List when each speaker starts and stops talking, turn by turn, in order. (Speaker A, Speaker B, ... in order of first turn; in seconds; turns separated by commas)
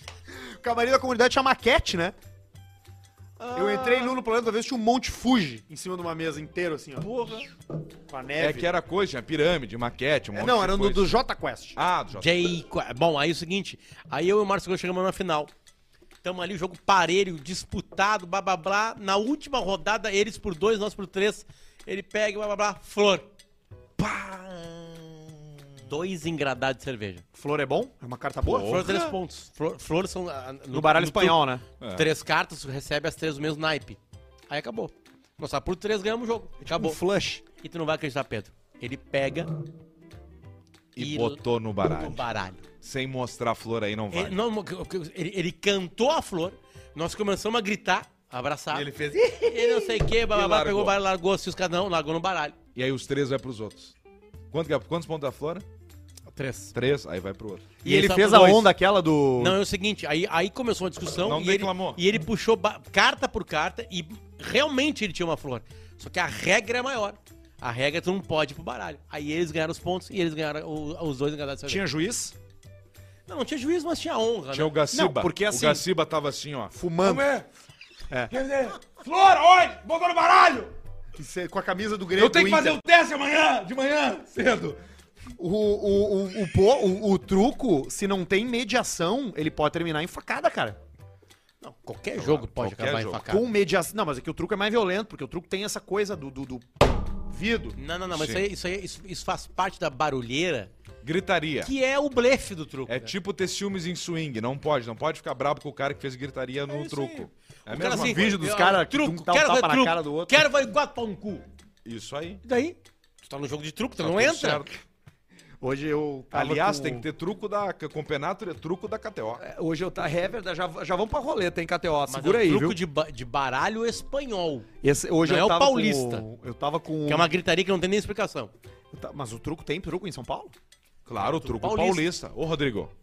Speaker A: 0.3-2.2, Speaker B: 3.4-4.2, Speaker A: 3.5-7.1, Speaker B: 7.0-7.5, Speaker A: 8.1-8.7, Speaker B: 8.4-11.2, Speaker A: 10.3-11.8, Speaker B: 11.8-12.5, Speaker C: 12.1-15.5, Speaker C: 16.2-23.3, Speaker B: 24.0-25.1, Speaker C: 25.9-27.2, Speaker A: 27.3-28.9, Speaker B: 28.4-29.2, Speaker C: 28.6-31.4, Speaker A: 30.7-31.6, Speaker B: 31.8-32.1, Speaker C: 31.9-34.0, Speaker C: 34.5-37.0, Speaker A: 36.6-37.4, Speaker C: 37.6-39.5, Speaker B: 41.0-42.2, Speaker C: 41.0-42.6, Speaker B: 42.8-44.4, Speaker C: 44.1-48.9, Speaker B: 48.7-51.0, Speaker C: 49.5-52.6, Speaker B: 52.8-53.9, Speaker B: 54.5-55.6, Speaker C: 56.3-56.8, Speaker B: 56.7-57.7, Speaker A: 57.8-59.6, Speaker C: 57.8-58.7, Speaker C: 59.4-71.8, Speaker B: 61.2-62.0, Speaker A: 71.7-72.3, Speaker C: 73.3-74.7, Speaker B: 74.5-77.5, Speaker A: 74.9-75.8, Speaker A: 76.7-77.3, Speaker B: 78.3-80.7, Speaker A: 81.2-82.8, Speaker B: 82.2-84.8, Speaker A: 85.4-90.8, Speaker C: 91.6-93.5, Speaker B: 92.2-93.2, Speaker A: 93.3-97.8, Speaker C: 97.8-100.7, Speaker B: 98.1-98.5, Speaker B: 101.0-101.7, Speaker C: 101.6-103.1, Speaker B: 102.9-108.5, Speaker C: 106.7-111.5, Speaker A: 107.8-110.5, Speaker B: 111.8-112.4, Speaker C: 112.4-114.7, Speaker B: 114.0-114.7, Speaker A: 115.6-117.1, Speaker B: 116.3-119.4, Speaker A: 119.4-122.8, Speaker C: 122.1-124.7, Speaker A: 124.8-127.3, Speaker C: 125.2-126.3, Speaker C: 127.1-128.5, Speaker A: 128.9-130.5, Speaker B: 131.1-132.9, Speaker C: 131.2-132.0